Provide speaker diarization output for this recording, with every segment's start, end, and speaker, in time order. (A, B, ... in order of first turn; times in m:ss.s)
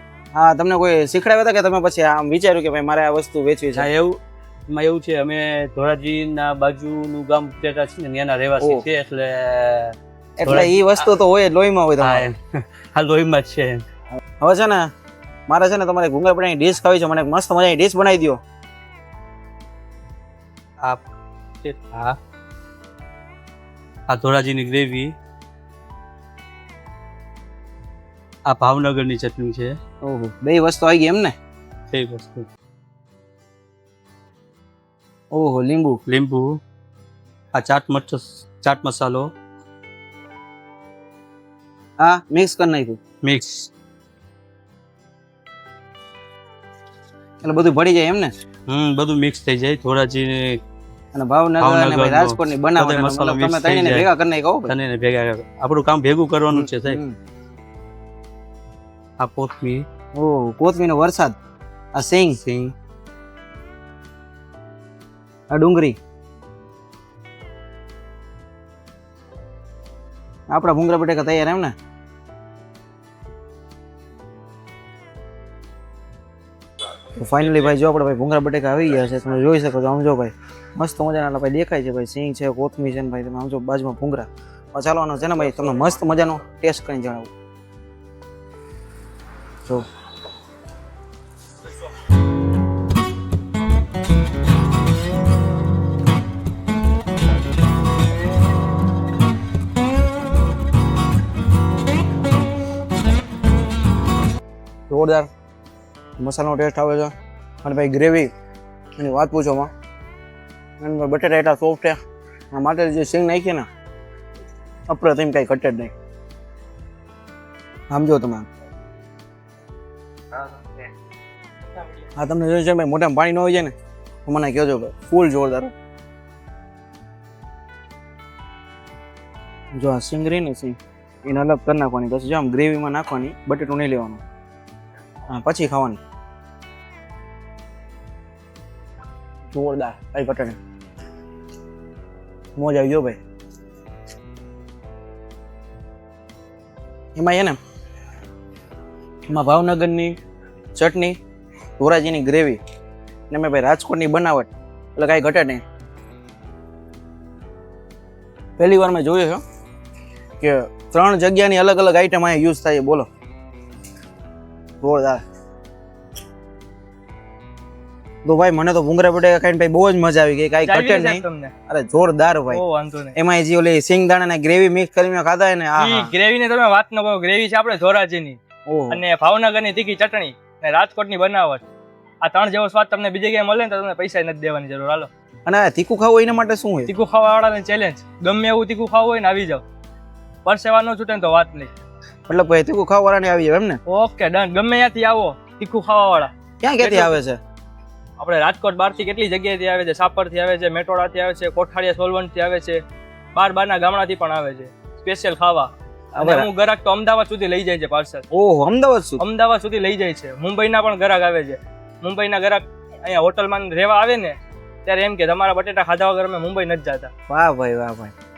0:00.3-0:03.9 A
0:03.7-0:11.0 B
0:08.6-0:08.8 A
0:10.4-0:12.2 A
0:12.0-0:13.8 B
0:14.4-0:14.9 A
0:15.5-0:18.4 A
0:21.6-0:22.2 B
0:24.1-0:25.1 B
0:28.5-0:29.7 B
0:30.0-0:31.3 A
0:31.9-0:32.5 B
0:35.3-0:36.0 A
0:36.1-0:36.6 B
0:37.5-0:39.3 B
0:42.0-0:43.0 A
0:43.2-0:43.7 B
0:47.4-0:48.3 A
0:48.7-0:50.6 B
0:51.1-0:54.7 A
0:51.6-0:54.1 B
0:54.7-0:57.0 B
0:56.5-0:57.2 A
0:59.2-0:59.8 B
1:00.2-1:01.4 A
1:01.9-1:02.4 A
1:02.4-1:02.7 B
1:05.5-1:06.0 A
1:10.5-1:11.7 A
1:17.2-1:27.3 A
1:44.9-1:45.3 A
1:46.2-1:47.1 A
1:47.6-1:48.3 A
1:49.0-1:49.7 A
1:50.8-1:52.0 A
1:52.5-1:53.7 A
1:54.9-1:55.9 A
1:57.9-1:58.5 A
2:02.2-2:03.7 A
2:04.2-2:05.7 A
2:09.7-2:14.2 A
2:15.3-2:16.0 A
2:19.5-2:20.6 A
2:22.6-2:23.2 A
2:27.2-2:27.6 A
2:29.3-2:30.2 A
2:30.8-2:31.2 A
2:31.8-2:32.6 A
2:33.3-2:35.6 A
2:38.6-2:39.4 A
2:40.4-2:43.1 A
2:44.8-2:45.2 A
2:48.2-2:52.6 A
2:50.6-2:51.5 C
2:52.5-2:53.2 C
2:53.2-2:56.1 A
2:55.8-2:58.4 C
2:58.7-2:59.0 A
2:58.9-3:01.6 C
3:02.2-3:05.1 C
3:05.4-3:06.9 A
3:06.9-3:09.6 C
3:10.4-3:11.7 C
3:12.3-3:13.8 A
3:13.9-3:17.2 C
3:16.6-3:17.4 A
3:18.2-3:22.8 C
3:23.3-3:28.2 C
3:26.1-3:26.5 A
3:28.3-3:29.2 A
3:29.2-3:37.1 C
3:37.3-3:38.1 A